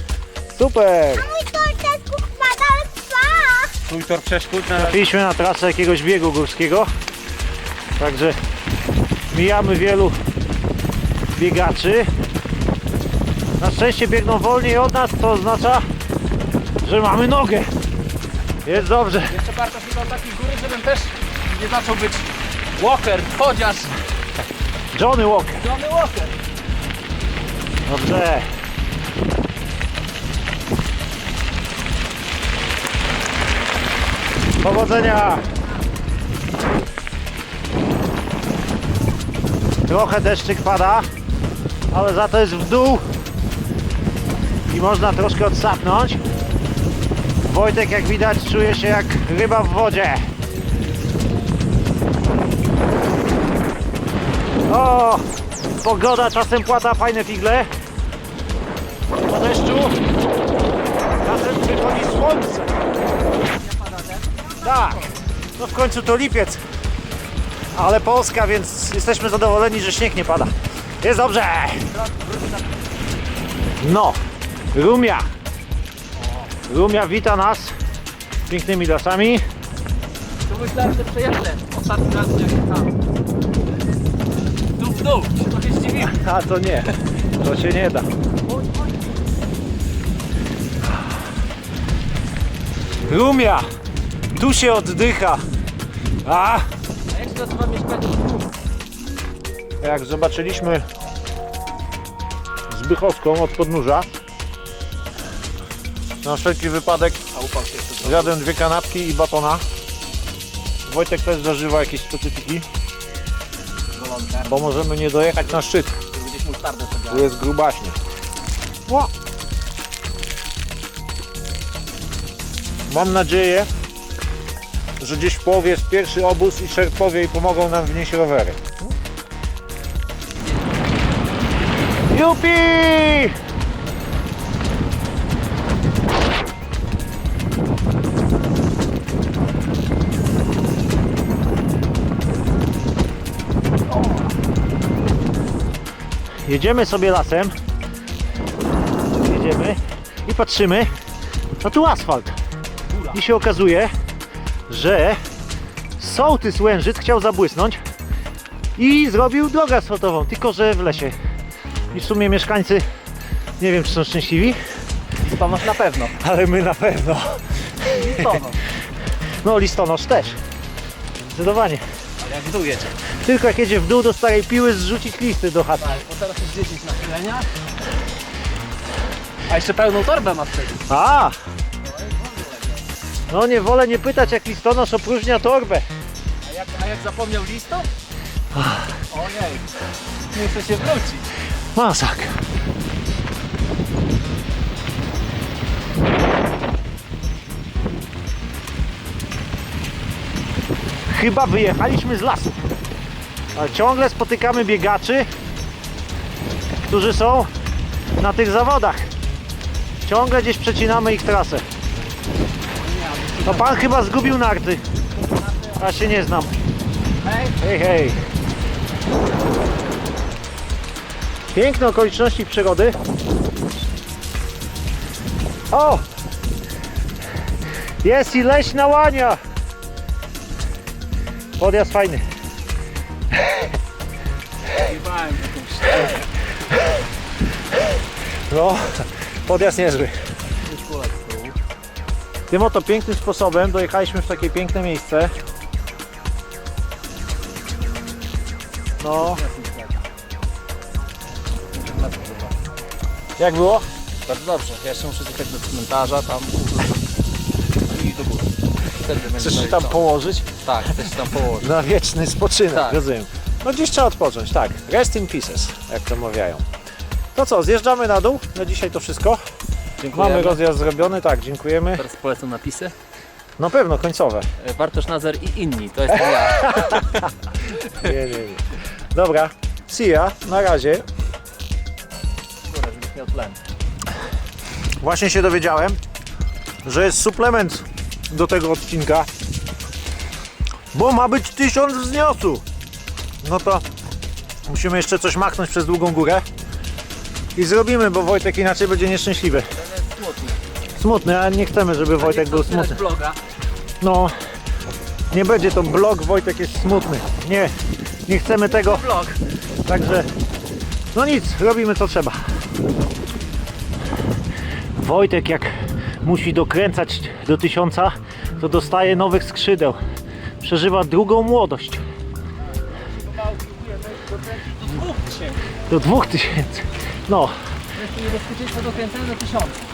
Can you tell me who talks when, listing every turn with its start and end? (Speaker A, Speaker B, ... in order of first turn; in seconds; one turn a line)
Speaker A: 0.5-1.4
Speaker B: 1.5-3.7
Speaker C: 3.9-4.8
Speaker A: 4.7-6.9
Speaker A: 8.0-8.4
Speaker A: 9.3-10.2
Speaker A: 11.4-12.1
Speaker A: 13.6-15.8
Speaker A: 16.8-17.7
Speaker A: 18.6-19.4
Speaker C: 18.8-24.0
Speaker A: 24.9-25.6
Speaker C: 25.6-26.3
Speaker A: 27.9-28.5
Speaker A: 34.6-35.4
Speaker A: 39.9-41.1
Speaker A: 41.9-43.0
Speaker A: 44.7-46.2
Speaker A: 47.4-50.3
Speaker A: 54.7-55.2
Speaker A: 55.8-57.7
Speaker A: 59.3-60.0
Speaker A: 61.2-62.8
Speaker C: 63.6-65.0
Speaker A: 64.6-66.6
Speaker A: 67.7-71.9
Speaker C: 71.9-72.6
Speaker A: 73.8-74.2
Speaker A: 74.7-75.3
Speaker A: 76.7-77.8
Speaker A: 78.5-79.4
Speaker C: 80.5-83.0
Speaker C: 84.8-86.2
Speaker A: 86.0-88.1
Speaker C: 88.5-89.0
Speaker A: 93.1-93.6
Speaker A: 94.3-95.4
Speaker A: 96.2-96.7
Speaker C: 97.1-98.5
Speaker A: 99.8-100.8
Speaker A: 102.7-104.2
Speaker A: 106.2-107.2
Speaker C: 107.3-108.4
Speaker A: 108.0-109.6
Speaker A: 110.9-112.7
Speaker C: 114.0-114.5
Speaker A: 114.5-116.0
Speaker C: 116.1-117.3
Speaker A: 117.1-118.0
Speaker A: 122.9-123.7
Speaker A: 125.0-128.8
Speaker A: 132.1-133.4
Speaker A: 146.4-147.5
Speaker A: 149.2-151.0
Speaker A: 151.6-152.4
Speaker A: 153.1-153.9
Speaker A: 154.7-155.2
Speaker A: 156.0-157.8
Speaker A: 158.8-161.2
Speaker A: 161.9-162.8
Speaker A: 163.6-164.6
Speaker C: 165.2-166.2
Speaker A: 166.2-168.4
Speaker C: 167.8-168.6
Speaker A: 169.4-170.4
Speaker A: 171.3-171.8
Speaker C: 172.2-173.0
Speaker A: 173.2-175.9
Speaker C: 175.8-177.5
Speaker C: 179.5-180.9
Speaker A: 180.9-181.4
Speaker C: 181.8-182.8
Speaker A: 183.3-185.9
Speaker C: 186.4-187.9
Speaker A: 188.5-188.9
Speaker C: 189.1-189.7
Speaker C: 190.3-191.3
Speaker A: 191.8-192.4
Speaker A: 201.1-202.6
Speaker A: 203.6-205.3
Speaker A: 206.8-207.5
Speaker A: 208.2-209.1
Speaker A: 210.0-211.7
Speaker C: 212.8-213.9
Speaker A: 213.4-214.8
Speaker A: 215.8-216.6
Speaker C: 217.2-217.6
Speaker A: 217.6-218.2
Speaker A: 221.5-223.0
Speaker A: 225.7-226.1
Speaker A: 228.0-229.4
Speaker A: 231.6-232.2
Speaker C: 234.8-236.2
Speaker A: 238.5-240.2
Speaker C: 240.7-241.6
Speaker A: 242.5-245.3
Speaker A: 249.0-249.4
Speaker C: 249.0-250.0
Speaker C: 251.7-252.6
Speaker A: 253.4-253.9
Speaker C: 254.3-257.0
Speaker C: 257.9-261.7
Speaker A: 259.4-260.5
Speaker A: 261.5-266.6
Speaker C: 262.7-263.0
Speaker A: 267.3-269.4
Speaker C: 270.0-270.6
Speaker A: 270.1-272.0
Speaker C: 271.9-272.9
Speaker A: 273.6-274.5
Speaker C: 274.6-277.2
Speaker A: 276.7-277.2
Speaker A: 277.8-281.1
Speaker C: 282.7-283.6
Speaker A: 285.0-286.0
Speaker A: 286.9-289.3
Speaker A: 290.9-292.6
Speaker A: 293.4-293.8
Speaker A: 294.7-296.4
Speaker A: 297.6-299.7
Speaker C: 299.8-300.6
Speaker A: 301.0-303.0
Speaker C: 302.2-303.4
Speaker A: 304.0-304.4
Speaker A: 305.3-307.7
Speaker A: 308.3-309.1
Speaker C: 308.6-309.4
Speaker A: 309.9-310.3
Speaker A: 311.1-312.4
Speaker A: 315.0-315.7
Speaker A: 316.2-320.0
Speaker A: 320.6-322.0
Speaker C: 323.0-325.6
Speaker A: 325.9-327.5
Speaker C: 327.9-329.8